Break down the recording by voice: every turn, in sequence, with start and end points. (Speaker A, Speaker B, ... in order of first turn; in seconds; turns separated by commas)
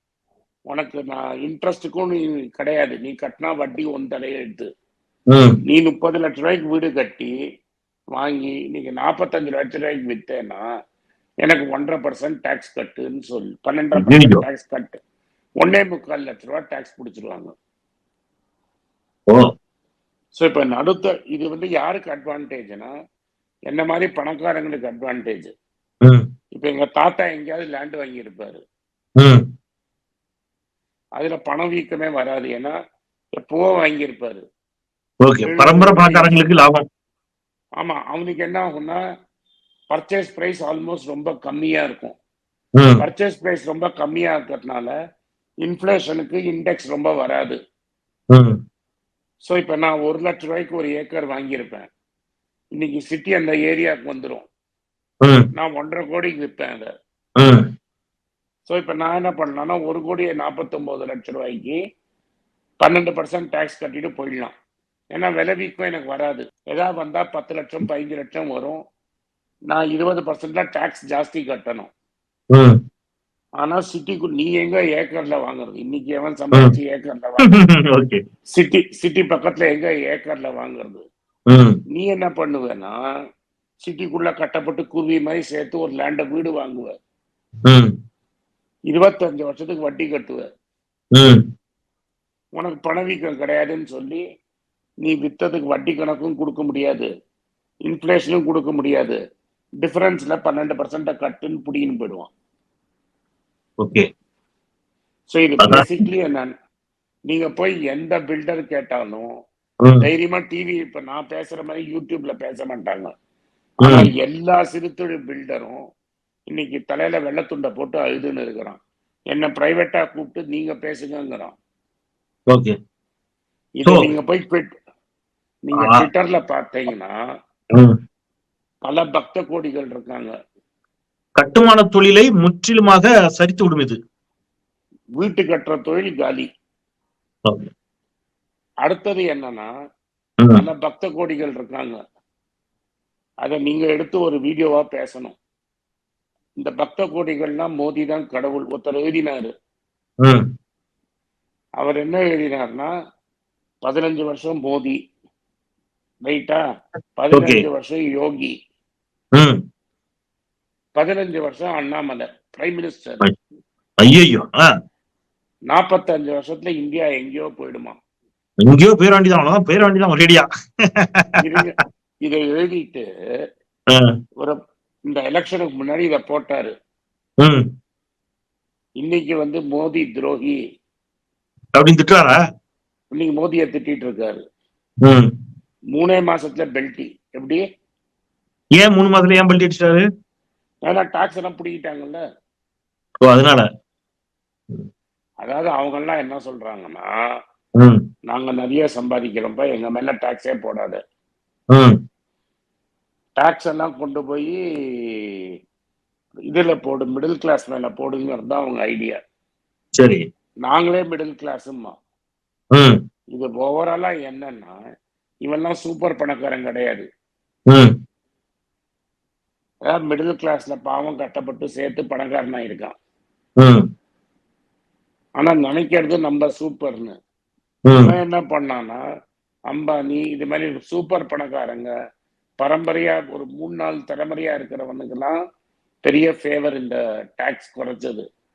Speaker A: 0.7-4.7, Speaker A: 5.7-7.3, Speaker A: 8.1-10.6, Speaker A: 11.4-15.0, Speaker B: 14.0-14.4, Speaker A: 15.6-17.5, Speaker A: 20.4-22.9, Speaker A: 23.7-25.5, Speaker A: 26.6-28.6, Speaker A: 31.2-32.7, Speaker A: 33.4-34.4, Speaker B: 35.2-36.8, Speaker A: 35.4-36.5, Speaker A: 37.8-39.0, Speaker A: 39.9-42.1, Speaker A: 43.0-44.9, Speaker A: 45.6-47.6, Speaker A: 49.5-51.9, Speaker A: 52.8-54.5, Speaker A: 55.5-56.9, Speaker B: 57.4-57.6, Speaker A: 58.7-61.8, Speaker A: 62.8-64.5, Speaker A: 65.1-68.8, Speaker A: 69.7-71.9, Speaker A: 73.6-77.6, Speaker B: 77.4-78.2, Speaker A: 78.5-81.0, Speaker B: 81.5-81.8, Speaker A: 81.9-82.9, Speaker A: 83.8-86.9, Speaker A: 88.9-90.5, Speaker B: 91.1-91.4, Speaker A: 92.5-94.2, Speaker A: 95.0-97.1, Speaker A: 97.9-99.2, Speaker A: 99.8-102.3, Speaker B: 103.8-104.1, Speaker A: 105.3-106.5, Speaker A: 107.3-109.3, Speaker A: 110.0-113.1, Speaker A: 113.8-115.8, Speaker A: 116.5-118.8, Speaker A: 119.3-121.5, Speaker A: 123.8-124.7, Speaker A: 125.7-127.1, Speaker B: 125.8-126.1, Speaker A: 128.8-130.3, Speaker B: 131.4-134.0, Speaker A: 135.2-136.5, Speaker A: 138.8-139.7, Speaker A: 140.6-142.0, Speaker A: 143.4-145.3, Speaker A: 146.6-149.5, Speaker A: 151.8-152.9, Speaker A: 153.8-154.9, Speaker A: 156.2-156.6, Speaker A: 157.2-158.5, Speaker B: 157.3-157.6, Speaker A: 161.0-163.2, Speaker B: 164.0-164.6, Speaker A: 165.7-167.9, Speaker B: 168.6-170.4, Speaker B: 171.0-171.3, Speaker A: 171.4-173.0, Speaker A: 175.1-176.7, Speaker A: 179.0-180.6, Speaker B: 181.8-182.4, Speaker A: 183.2-184.4, Speaker A: 185.9-187.6, Speaker B: 188.8-190.0, Speaker A: 190.8-192.2, Speaker B: 193.2-193.6, Speaker A: 195.4-197.1, Speaker A: 198.3-201.0, Speaker A: 203.4-205.5, Speaker A: 206.5-209.2, Speaker B: 210.0-210.2, Speaker A: 210.7-211.9, Speaker A: 213.3-214.7, Speaker A: 215.4-217.0, Speaker A: 219.9-222.9, Speaker A: 225.4-227.1, Speaker B: 227.9-228.1, Speaker A: 228.0-229.0, Speaker A: 229.7-231.9, Speaker A: 232.6-235.3, Speaker A: 236.0-238.2